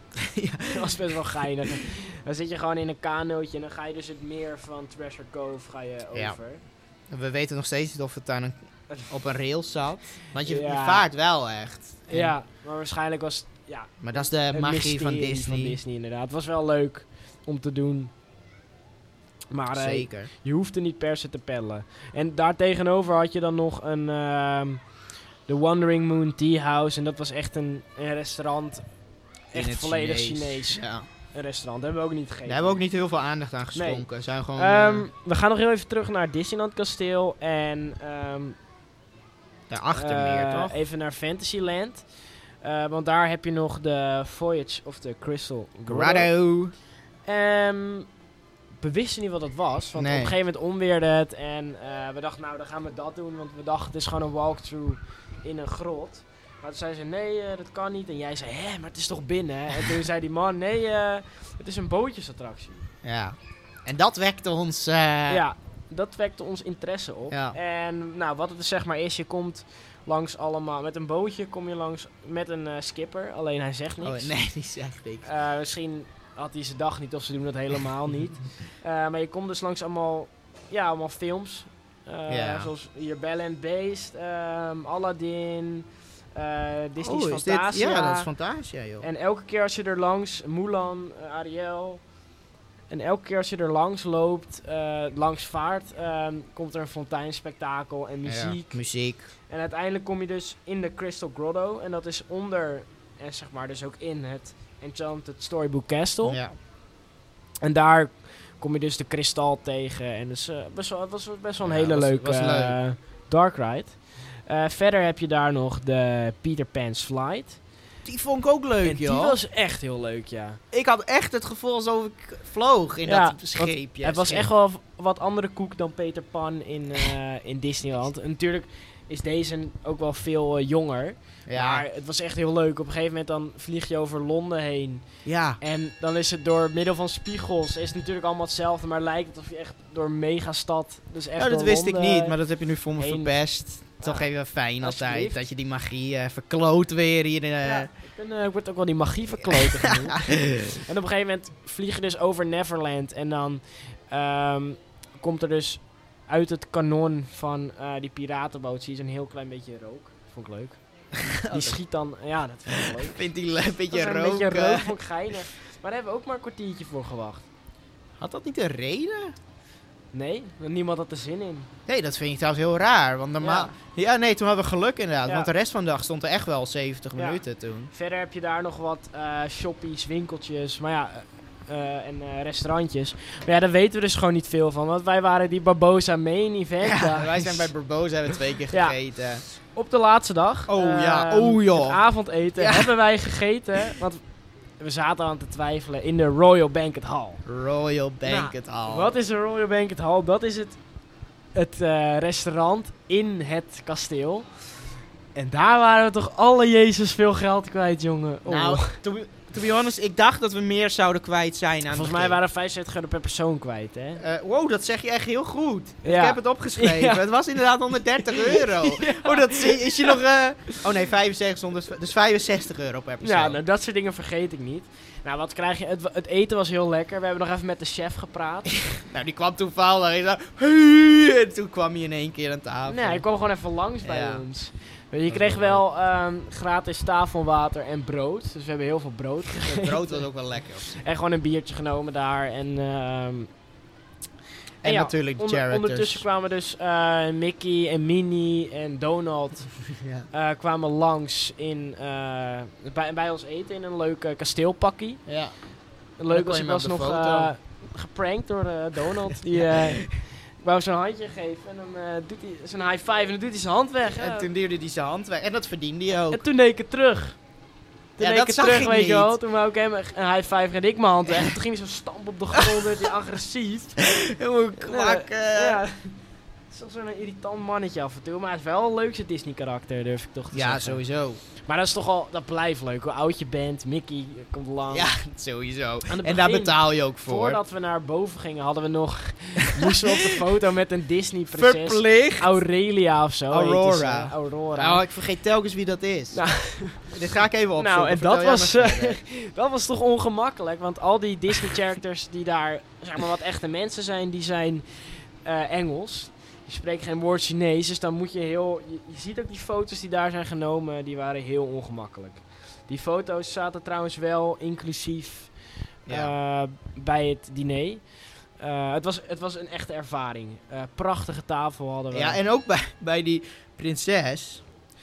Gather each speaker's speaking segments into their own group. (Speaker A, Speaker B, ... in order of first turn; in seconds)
Speaker A: 0.2-1.0, 7.1-8.6, 9.1-12.3, 14.0-15.8, 19.7-20.3, 29.5-31.0, 32.5-35.1, 39.7-40.8, 45.9-46.7, 50.0-50.3, 63.0-65.4, 67.3-67.6, 74.0-75.2, 82.3-82.7, 87.0-89.0, 98.2-99.2, 106.2-106.5, 111.6-112.8, 118.0-119.4, 120.7-124.5, 131.5-131.8, 135.2-135.6, 141.4-147.9, 149.5-150.8, 161.1-161.8, 162.8-164.9, 168.2-169.3, 171.9-177.9, 186.8-189.4, 190.7-192.0, 192.6-192.9, 197.4-199.1, 208.5-212.3, 214.2-223.6, 228.9-233.2, 234.0-234.4, 235.3-235.8, 239.6-241.0, 244.8-246.2, 249.9-250.3, 255.3-255.5, 256.3-257.5, 259.3-260.1, 264.1-266.4, 268.2-269.3, 271.3-271.5, 272.6-273.0, 274.0-275.8, 280.5-281.4, 284.9-287.6, 289.8-290.1, 291.5-292.5, 293.5-299.2, 316.1-316.3, 322.1-324.6
Speaker B: 0.7-6.6, 10.4-11.1, 12.1-14.0, 14.5-18.1, 19.5-24.8, 25.5-28.8, 29.5-32.8, 33.7-38.5, 39.9-42.0, 42.6-46.3, 47.2-48.1, 48.8-62.9, 65.3-74.3, 75.2-88.3, 89.0-92.0, 92.9-98.8, 99.5-106.4, 107.6-117.6, 118.8-120.6, 123.0-135.0, 135.6-142.3, 143.0-143.3, 144.8-145.4, 147.6-160.8, 161.5-163.2, 163.9-167.4, 170.1-171.7, 173.4-173.7, 177.1-187.7, 188.7-188.9, 189.7-194.2, 194.8-197.4, 198.2-200.8, 201.5-204.5, 205.3-209.0, 211.9-214.2, 216.0-217.2, 218.2-220.2, 223.2-228.8, 232.8-240.2, 240.9-243.5, 244.8-255.2, 256.2-264.5, 266.3-267.4, 268.2-274.0, 274.8-276.1, 276.7-281.0, 281.6-285.1, 286.1-295.0, 296.3-297.1, 297.8-315.5, 316.1-318.0, 318.6-322.4